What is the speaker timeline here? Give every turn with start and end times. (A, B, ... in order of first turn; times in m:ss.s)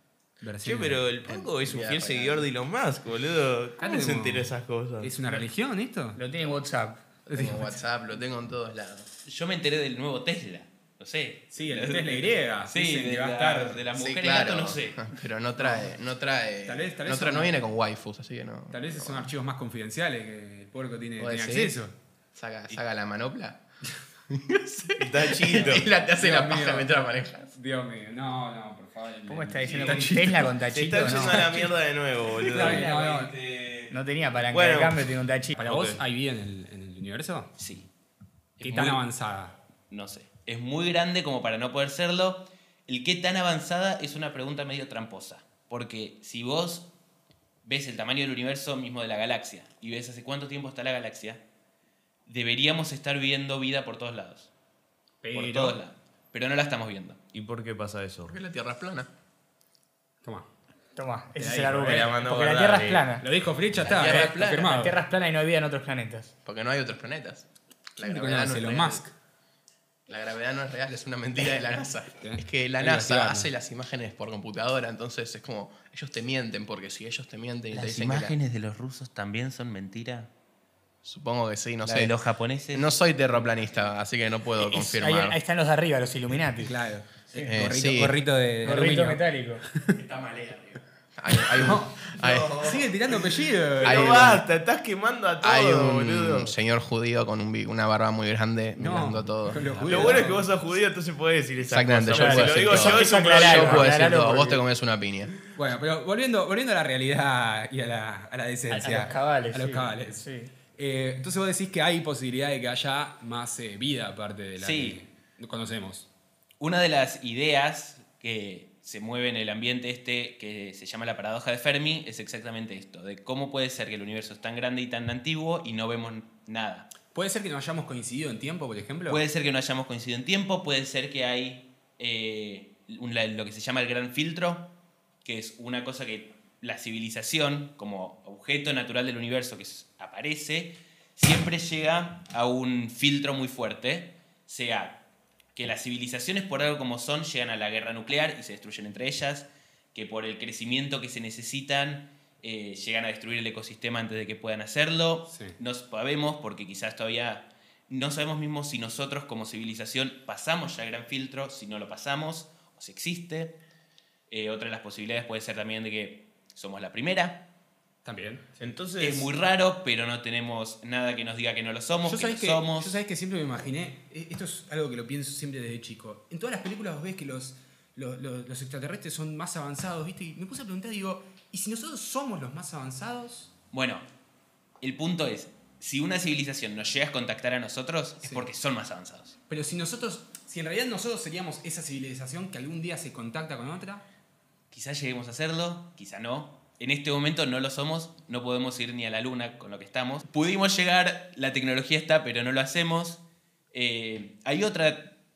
0:00.4-0:01.0 A
0:00.6-0:05.1 B
0:01.3-0:02.5 C
0:03.8-0:06.2 A
0:06.2-0:07.3 D
0:07.3-0:07.8 A
0:07.3-0:09.1 C
0:09.2-0:15.0 E
0:11.5-0:13.8 A
0:13.9-0:19.3 C
0:15.6-0:15.9 A
0:16.6-0:17.6 A
0:18.7-0:21.9 A
0:21.2-0:21.8 C
0:22.3-0:23.6 C
0:24.3-0:27.5 C
0:25.0-0:25.9 B
0:26.2-0:30.6 A
0:29.3-0:31.7 D
0:29.6-0:33.0 B
0:32.5-0:33.4 A
0:32.8-0:33.2 E
0:33.9-0:35.6 D
0:34.5-0:35.1 B
0:35.6-0:37.5 A
0:35.6-0:36.0 B
0:37.6-0:37.9 E
0:38.6-0:39.0 E
0:38.6-0:39.6 A
0:39.9-0:46.9 E
0:47.6-0:51.4 E
0:52.3-0:54.5 E
0:55.2-0:55.8 A
0:55.3-0:57.2 E
0:57.3-0:58.4 B
0:58.3-0:59.1 C
1:01.0-1:03.3 D
1:01.4-1:02.2 A
1:01.8-1:03.1 B
1:03.2-1:05.0 A
1:03.8-1:04.8 C
1:04.6-1:06.3 D
1:06.4-1:09.1 C
1:08.0-1:09.1 A
1:10.1-1:18.4 C
1:12.2-1:13.5 A
1:17.7-1:20.3 E
1:21.0-1:22.1 C
1:21.8-1:23.0 E
1:22.7-1:25.4 C
1:24.6-1:26.8 D
1:26.6-1:29.2 A
1:27.3-1:27.7 D
1:27.4-1:28.2 C
1:28.6-1:29.7 D
1:30.0-1:30.8 E
1:31.2-1:34.4 C
1:31.5-1:34.4 A
1:33.8-1:36.5 B
1:35.4-1:40.3 C
1:38.8-1:40.5 A
1:39.8-1:43.9 B
1:41.7-1:45.4 C
1:42.1-1:44.6 D
1:45.6-1:56.1 A
1:48.7-1:50.6 D
1:54.6-1:55.0 E
1:56.6-2:06.9 E
2:07.1-2:09.2 A
2:09.1-2:14.7 E
2:15.2-2:25.0 E
2:25.6-2:43.6 E
2:35.3-2:35.6 A
2:44.3-2:47.4 E
2:48.0-2:48.8 A
2:48.6-2:49.3 B
2:49.0-2:53.0 E
2:52.0-3:03.5 A
3:03.7-3:04.1 E
3:04.8-3:09.4 E
3:08.2-3:08.5 A
3:09.5-3:14.0 A
3:14.7-3:23.2 E
3:23.7-3:25.1 E